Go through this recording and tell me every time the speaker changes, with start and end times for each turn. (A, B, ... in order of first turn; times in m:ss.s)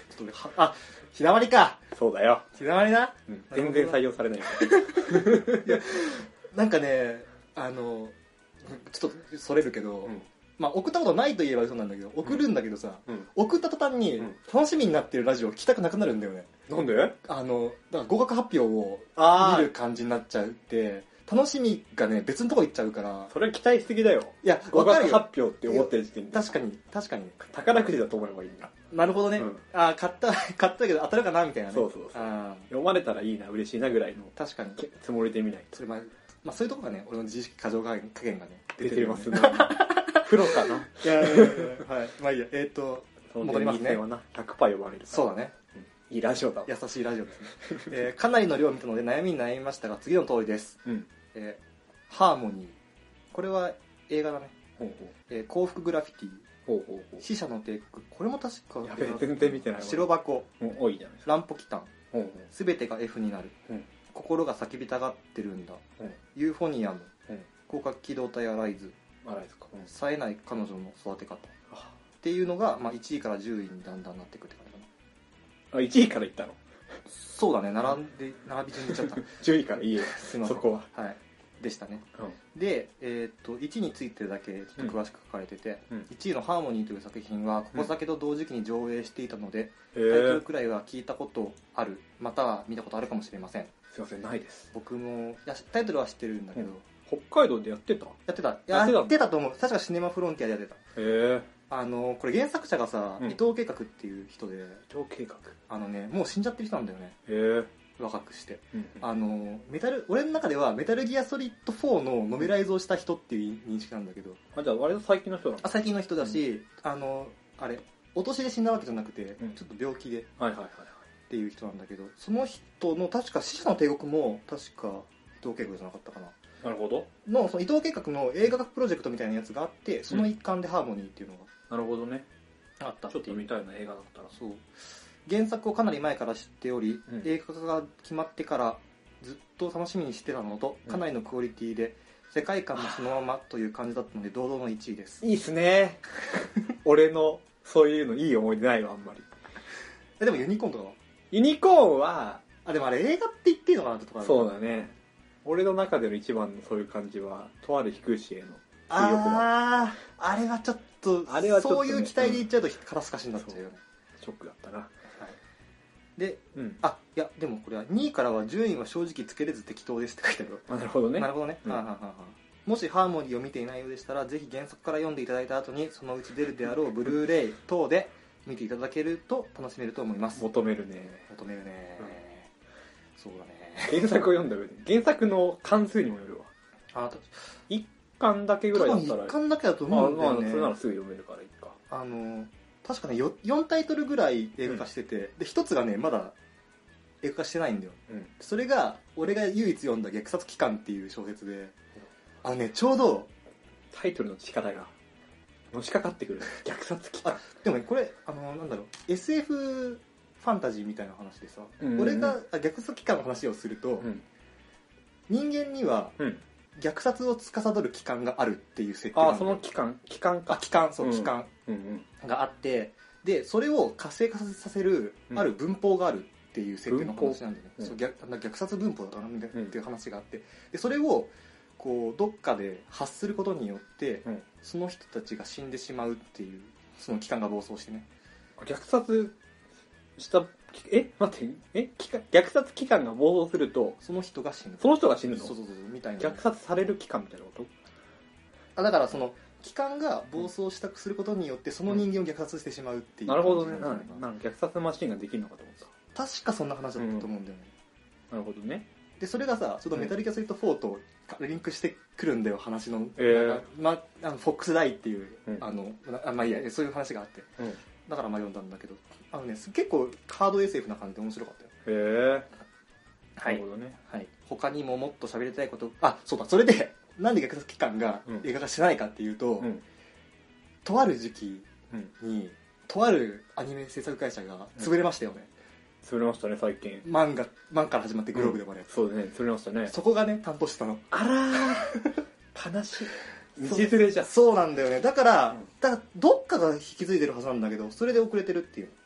0:00.1-0:01.8 A
0:01.9-0:02.5 B
0:02.5-0:16.5 A
0:03.3-0:05.8 B
0:16.7-0:17.2 B
0:17.2-0:23.3 A
0:19.2-0:19.7 B
0:23.3-0:26.5 B
0:24.4-0:27.4 A
0:27.4-0:28.7 B
0:28.9-0:32.7 A
0:31.7-0:35.8 B
0:34.4-0:34.8 A
0:35.7-0:44.0 A
0:38.8-0:41.8 B
0:43.3-0:46.8 B
0:45.1-0:45.5 A
0:46.6-0:52.8 A
0:53.3-0:54.5 A
0:54.8-0:55.1 B
0:55.3-0:56.4 A
0:56.7-0:57.2 B
0:57.2-1:00.5 A
0:58.8-1:01.3 B
1:01.2-1:01.9 A
1:02.1-1:02.5 B
1:02.5-1:03.5 A
1:04.1-1:05.8 A
1:06.3-1:07.1 A
1:07.7-1:09.0 A
1:09.2-1:09.9 B
1:09.8-1:11.6 A
1:12.2-1:14.9 A
1:15.7-1:16.6 B
1:17.1-1:19.4 A
1:18.8-1:20.9 B
1:20.0-1:33.7 A
1:29.9-1:30.4 B
1:33.9-1:34.7 B
1:34.7-1:36.8 A
1:36.6-1:38.2 B
1:38.3-1:40.8 A
1:38.7-1:39.2 B
1:41.0-1:41.5 B
1:41.7-1:44.8 A
1:44.9-1:45.6 B
1:45.7-1:47.2 A
1:47.3-1:47.7 B
1:48.0-1:54.4 A
1:48.7-1:49.0 B
1:54.5-1:56.4 B
1:55.6-2:00.3 A
2:00.4-2:01.0 B
2:01.3-2:06.3 A
2:06.6-2:07.1 B
2:07.2-2:11.5 A
2:11.7-2:12.3 B
2:12.8-2:13.5 A
2:13.1-2:14.3 B
2:14.3-2:14.7 A
2:15.2-2:25.2 A
2:25.2-2:26.0 B
2:26.8-2:29.3 B
2:30.2-2:31.0 A
2:31.3-2:32.4 B
2:32.6-2:34.5 A
2:34.2-2:39.5 B
2:38.9-2:43.8 A
2:41.3-2:42.5 B
2:44.2-2:44.9 B
2:46.2-3:00.4 A
2:46.5-2:46.8 B
2:50.7-2:51.8 B
3:00.4-3:01.2 B
3:01.3-3:02.5 A
3:03.2-3:04.1 A
3:03.8-3:06.5 B
3:06.9-3:07.3 A
3:07.7-3:11.8 B
3:08.7-3:10.7 A
3:11.9-3:16.3 A
3:17.2-3:21.7 A
3:22.4-3:23.3 A
3:23.9-3:24.9 B
3:25.7-3:27.4 B
3:27.2-3:34.1 A
3:31.8-3:32.4 B
3:35.3-3:36.2 A
3:36.7-3:39.6 A
3:39.1-3:42.0 B
3:40.5-3:41.5 A
3:42.2-3:58.1 A
3:46.9-3:47.9 B
3:58.6-3:59.3 B
4:00.2-4:04.0 B
4:04.0-4:06.4 A
4:04.8-4:05.5 B
4:06.2-4:07.7 B
4:08.8-4:14.3 A
4:13.3-4:15.9 B
4:16.1-4:17.7 A
4:17.0-4:17.3 B
4:18.3-4:18.9 B
4:19.2-4:27.5 A
4:23.2-4:23.6 B
4:28.1-4:31.7 A
4:31.8-4:32.5 B
4:33.4-4:39.7 A
4:33.4-4:34.0 B
4:40.8-4:45.5 A
4:46.0-4:47.0 B
4:47.0-4:49.1 A
4:48.4-4:49.9 B
4:49.9-4:52.2 A
4:51.1-4:52.0 B
4:52.5-4:54.3 B
4:53.6-4:59.0 A